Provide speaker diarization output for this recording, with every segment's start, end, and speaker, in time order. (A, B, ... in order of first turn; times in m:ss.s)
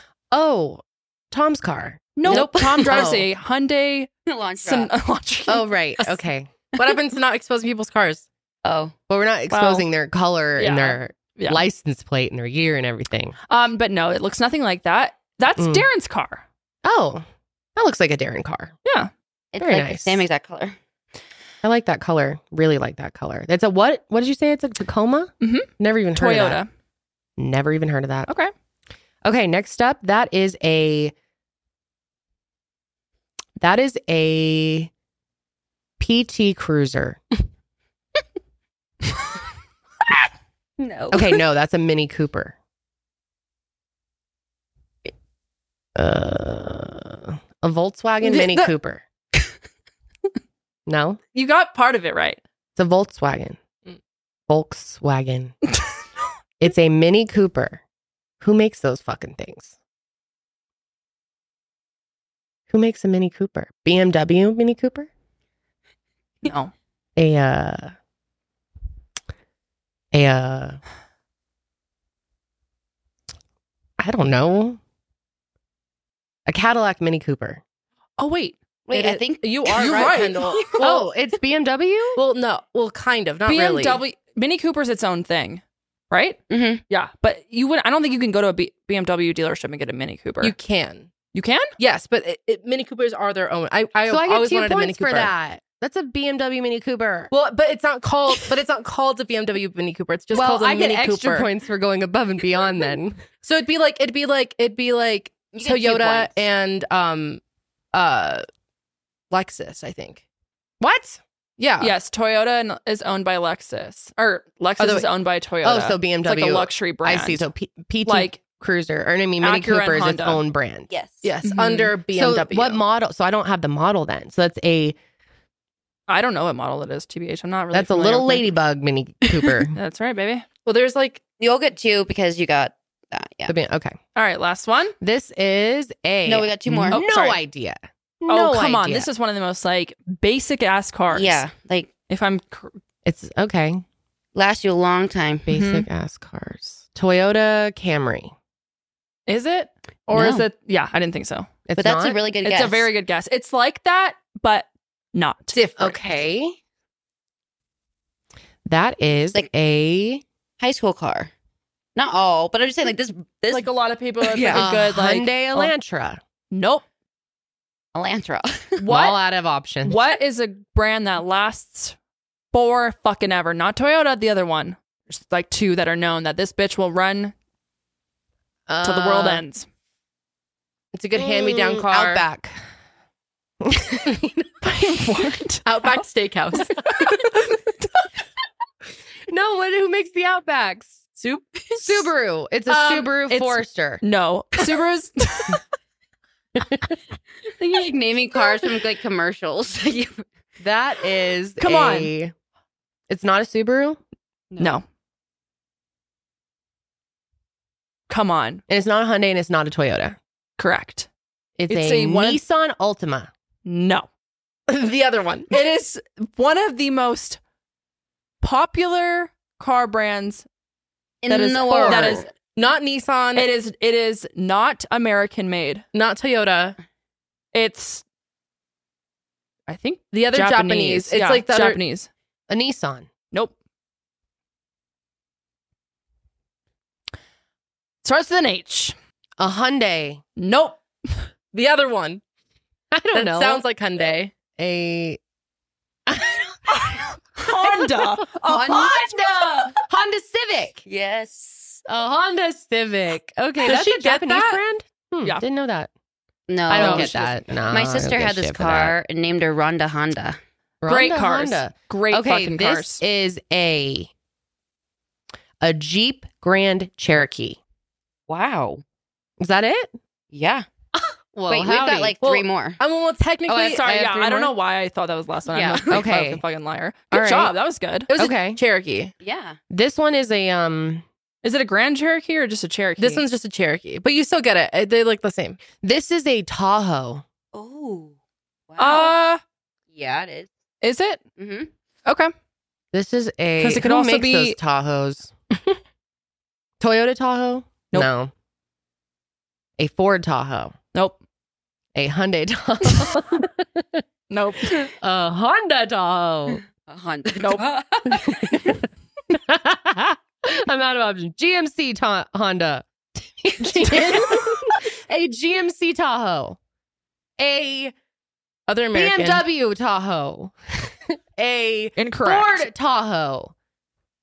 0:00.3-0:03.3 A
0:02.2-0:04.1 B
0:02.3-0:03.2 C
0:04.3-0:04.9 C
0:04.6-0:05.7 B
0:05.5-0:06.5 A
0:06.8-0:08.3 D
0:08.6-0:09.0 C
0:09.1-0:13.4 A
0:09.5-0:09.8 B
0:10.6-0:11.6 B
0:13.5-0:16.4 B
0:15.6-0:15.8 A
0:16.8-0:17.2 A
0:17.8-0:18.7 A
0:18.8-0:19.1 B
0:19.5-0:20.8 C
0:19.6-0:20.2 A
0:21.6-0:26.6 A
0:25.4-0:26.7 B
0:27.4-0:28.3 A
0:28.3-0:28.5 B
0:29.2-0:31.1 A
0:33.6-0:34.9 A
0:36.0-0:37.2 A
0:40.8-0:41.4 C
0:41.1-0:42.6 A
0:46.0-0:49.0 A
0:50.9-0:51.2 A
0:51.3-0:52.4 B
0:52.8-0:53.6 A
0:54.5-0:55.5 A
0:56.6-0:57.8 A
0:58.4-0:59.7 A
1:02.7-1:05.1 A
1:06.4-1:06.7 B
1:07.2-1:07.9 A
1:10.1-1:10.8 A
1:14.0-1:14.8 A
1:16.5-1:17.6 A
1:18.2-1:18.6 B
1:18.9-1:20.0 C
1:18.9-1:21.1 D
1:19.7-1:21.0 B
1:20.8-1:22.2 A
1:22.2-1:24.0 D
1:23.5-1:30.6 B
1:26.5-1:26.8 C
1:30.4-1:31.1 D
1:31.3-1:31.8 B
1:31.8-1:35.3 D
1:34.0-1:37.3 A
1:37.3-1:41.5 D
1:40.3-1:43.2 A
1:43.4-1:47.4 D
1:45.5-1:46.3 C
1:47.9-1:48.4 D
1:49.3-1:50.2 D
1:50.8-1:51.2 A
1:51.6-1:51.9 D
1:51.8-1:57.5 B
1:54.8-1:55.0 D
1:55.6-2:00.9 A
1:58.1-1:58.4 B
1:59.4-2:00.4 B
2:00.9-2:01.3 C
2:01.2-2:02.8 D
2:01.4-2:02.0 B
2:02.1-2:05.0 A
2:06.1-2:08.5 B
2:07.7-2:09.8 A
2:09.3-2:10.5 B
2:10.6-2:11.2 D
2:11.4-2:13.5 C
2:13.5-2:14.0 A
2:14.2-2:15.0 B
2:15.0-2:19.1 A
2:16.2-2:17.0 C
2:16.9-2:17.4 B
2:18.3-2:21.4 B
2:21.1-2:21.9 C
2:22.1-2:22.8 B
2:23.0-2:23.8 A
2:24.4-2:25.5 C
2:25.5-2:28.3 A
2:25.5-2:25.9 B
2:29.3-2:31.5 B
2:30.1-2:30.4 C
2:31.7-2:32.2 A
2:31.8-2:32.9 C
2:32.4-2:35.6 B
2:35.5-2:36.0 D
2:35.8-2:36.6 A
2:38.6-2:40.2 A
2:40.6-2:41.3 C
2:42.0-2:43.7 C
2:43.5-2:45.7 B
2:43.7-2:44.7 D
2:44.5-2:46.2 A
2:46.5-2:46.8 B
2:47.9-2:48.8 C
2:48.8-2:49.2 B
2:48.8-2:50.0 A
2:49.9-2:52.0 B
2:52.5-2:57.3 B
2:58.7-2:59.4 A
2:58.8-2:59.7 B
3:00.9-3:02.2 D
3:01.2-3:02.6 A
3:03.6-3:05.2 A
3:04.6-3:05.6 B
3:05.6-3:06.8 D
3:09.3-3:11.0 A
3:11.2-3:12.0 D
3:11.8-3:14.0 A
3:12.7-3:13.1 D
3:13.3-3:15.6 B
3:17.5-3:20.2 C
3:20.6-3:22.3 A
3:21.6-3:22.1 B
3:23.1-3:24.0 A
3:24.6-3:24.8 B
3:28.1-3:28.6 B
3:28.7-3:30.2 A
3:30.6-3:31.1 B
3:31.6-3:33.3 A
3:31.7-3:32.4 B
3:33.6-3:34.1 B
3:34.7-3:35.5 D
3:35.5-3:37.4 B
3:38.4-3:40.5 B
3:41.2-3:42.3 C
3:41.3-3:42.3 B
3:41.7-3:42.2 A
3:42.6-3:43.5 D
3:43.4-3:45.8 B
3:45.9-3:46.8 D
3:47.5-3:48.0 B
3:49.7-3:52.1 B
3:50.1-3:51.8 D
3:52.5-3:53.1 A
3:58.0-3:59.0 B
3:59.4-4:00.2 A
4:00.4-4:01.3 B
4:01.5-4:02.2 D
4:02.9-4:03.6 A
4:03.1-4:04.3 D
4:04.6-4:05.2 A
4:06.1-4:10.8 A
4:07.4-4:09.8 B
4:08.4-4:09.0 C
4:10.8-4:11.8 C
4:11.9-4:15.9 A
4:13.6-4:14.6 B
4:16.5-4:20.4 C
4:16.7-4:19.0 A
4:16.8-4:17.1 B
4:20.8-4:24.1 A
4:20.9-4:23.0 B
4:25.6-4:27.6 A
4:28.3-4:28.8 C
4:29.4-4:30.0 A
4:30.3-4:30.6 C
4:31.0-4:32.2 A
4:31.5-4:32.8 C
4:32.2-4:33.8 D
4:33.5-4:34.6 A
4:33.5-4:38.1 B
4:35.6-4:36.4 A
4:35.6-4:35.9 C
4:37.1-4:37.5 A
4:38.1-4:39.1 D
4:38.2-4:38.6 A
4:39.2-4:39.6 C
4:39.7-4:41.0 A
4:41.4-4:43.2 B
4:43.0-4:45.6 D
4:45.8-4:47.2 A
4:47.5-4:48.1 C
4:48.7-4:49.2 C
4:48.8-4:49.4 B
4:49.9-4:50.5 C
4:50.8-4:51.2 B
4:51.4-4:51.7 C
4:52.1-4:52.3 B
4:52.9-4:55.8 A
4:53.6-4:54.6 B
4:56.8-4:58.3 A
4:59.8-5:00.8 A
5:02.0-5:04.0 A
5:04.3-5:04.9 B
5:04.7-5:06.6 A
5:06.9-5:08.7 C
5:07.4-5:07.7 B
5:08.1-5:08.7 A
5:09.3-5:12.8 A
5:13.4-5:16.6 A
5:17.4-5:17.9 A
5:18.7-5:19.4 D
5:18.9-5:23.5 A
5:22.0-5:22.7 B